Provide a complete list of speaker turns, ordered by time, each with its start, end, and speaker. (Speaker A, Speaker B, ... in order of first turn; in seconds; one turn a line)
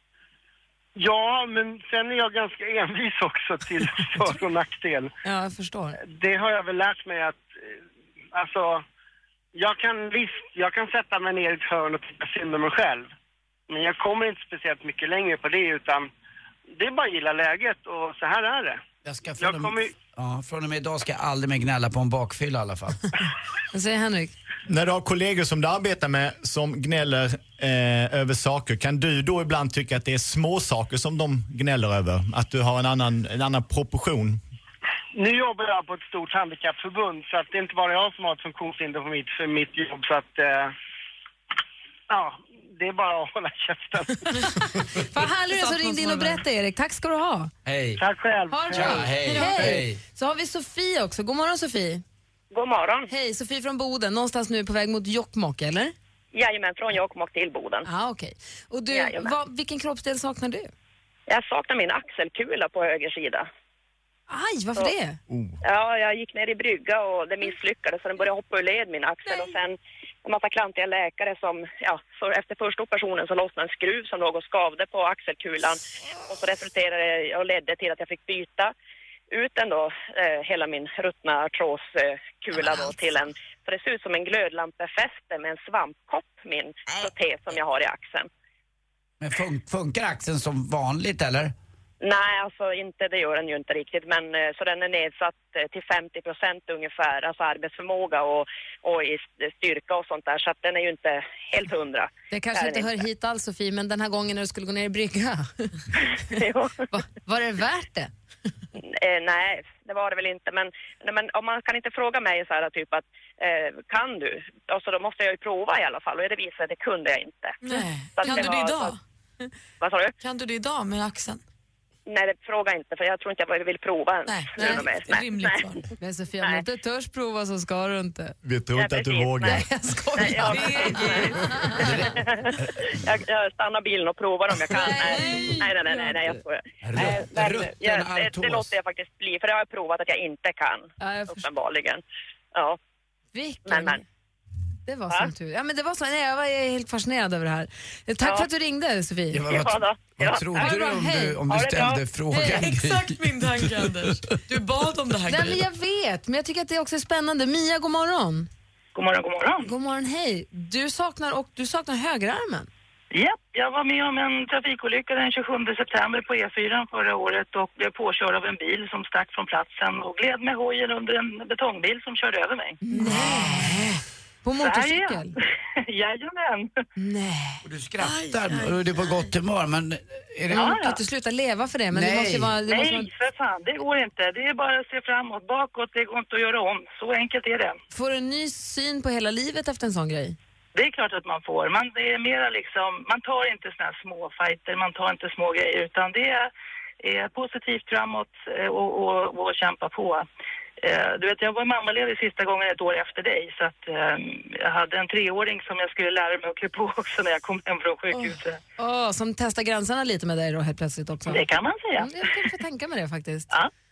Speaker A: 1.0-5.1
Speaker B: 5.2-6.0
Speaker A: 6.0-7.8
Speaker A: 8.3-8.8
Speaker A: 9.5-13.1
Speaker A: 13.7-16.1
Speaker A: 16.8-18.8
Speaker C: 19.0-23.1
Speaker A: 19.4-19.9
Speaker B: 23.7-24.3
Speaker D: 24.7-34.4
Speaker A: 35.1-40.7
Speaker A: 42.1-44.3
Speaker B: 45.0-47.5
Speaker E: 45.5-46.4
Speaker C: 47.6-48.0
Speaker A: 48.0-49.1
Speaker B: 48.5-52.0
Speaker C: 48.7-50.0
Speaker F: 52.5-53.1
Speaker B: 53.1-55.9
Speaker F: 56.3-57.9
Speaker B: 57.8-60.7
Speaker F: 58.9-59.3
Speaker F: 61.3-63.5
Speaker B: 64.3-65.2
Speaker D: 65.3-65.6
Speaker F: 65.6-78.7
Speaker F: 79.3-88.3
Speaker C: 89.2-91.5
Speaker F: 92.0-102.9
Speaker B: 102.3-105.9
Speaker F: 106.3-106.7
Speaker B: 106.9-108.1
Speaker F: 108.7-119.0
Speaker E: 117.6-119.0
Speaker F: 119.8-120.1
Speaker E: 120.2-121.4
Speaker F: 122.0-125.7
Speaker E: 124.2-125.8
Speaker B: 124.6-124.8
Speaker B: 126.0-128.3
Speaker D: 128.4-129.7
Speaker F: 128.8-129.6
Speaker B: 129.4-131.8
Speaker F: 130.2-142.0
Speaker E: 130.5-131.3
Speaker C: 131.8-132.7
Speaker B: 134.7-136.2
Speaker C: 136.8-138.7
Speaker B: 141.0-141.4
Speaker B: 143.3-144.0
Speaker F: 143.7-144.0
Speaker B: 144.9-149.4
Speaker F: 148.2-148.5
Speaker C: 149.3-153.1
Speaker F: 149.5-150.7
Speaker B: 150.6-151.4
Speaker F: 151.5-152.0
Speaker E: 152.3-155.6
Speaker B: 155.3-158.5
Speaker G: 158.9-159.7
Speaker B: 159.6-162.7
Speaker G: 163.1-172.8
Speaker B: 172.8-175.3
Speaker E: 172.9-173.6
Speaker G: 174.6-176.7
Speaker B: 177.0-177.6
Speaker C: 177.6-180.8
Speaker E: 178.0-178.8
Speaker B: 180.5-183.1
Speaker G: 180.6-180.9
Speaker C: 181.9-182.6
Speaker G: 182.6-187.8
Speaker B: 187.9-190.3
Speaker G: 190.7-196.5
Speaker G: 197.0-200.2
Speaker G: 200.8-208.6
Speaker B: 208.1-211.4
Speaker G: 211.2-212.1
Speaker B: 212.0-213.5